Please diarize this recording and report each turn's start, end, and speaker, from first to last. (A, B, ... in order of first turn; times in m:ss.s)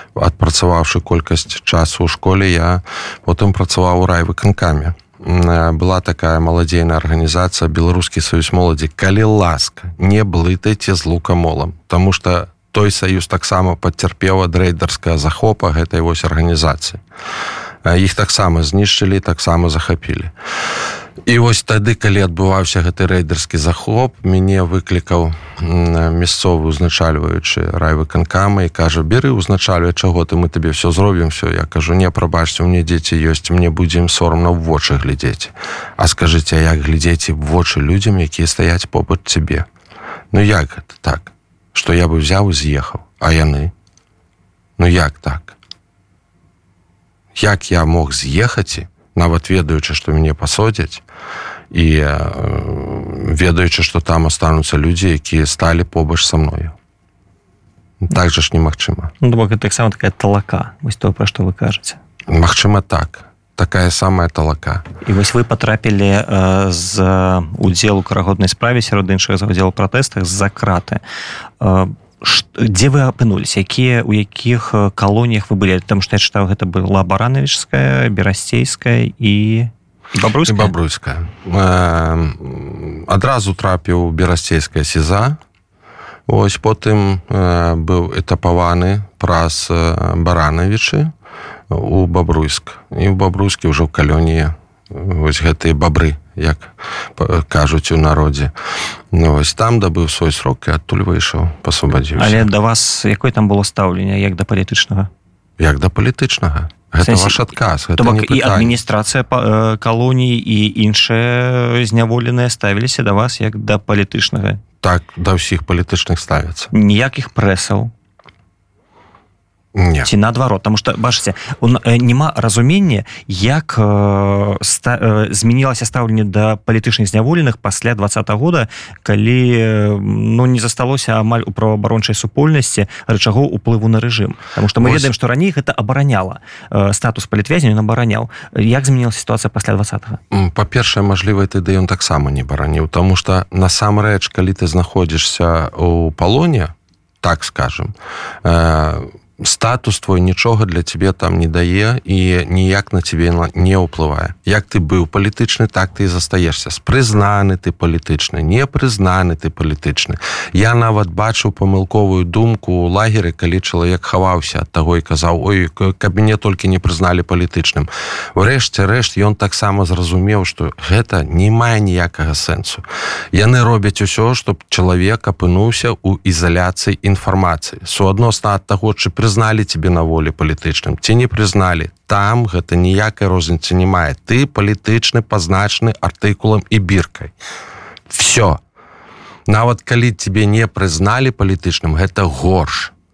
0:00.1-0:17.0 A
0:17.8-0:20.3 A
0:21.2-0:39.7 A
0:40.3-0:43.7 A
0:44.8-0:45.6 A
0:47.3-0:51.0 A
0:51.7-0:56.7 A
0:58.0-0:59.1 A
0:59.2-1:02.0 B
1:02.3-1:04.8 A
1:05.0-1:11.0 B
1:11.6-1:20.7 B
1:20.4-1:25.4 A
1:26.3-1:31.1 A
1:31.7-1:38.5 A
1:39.1-1:42.5 A
1:42.2-1:45.1 B
1:45.6-1:48.8 A
1:47.0-1:47.4 B
1:48.0-1:54.6 B
1:54.8-1:56.7 A
1:56.7-1:57.9 B
1:59.7-2:00.1 A
2:00.0-2:20.2 B
2:14.8-2:15.1 A
2:20.3-3:07.3 A
3:08.1-3:08.6 A
3:09.5-3:12.9 A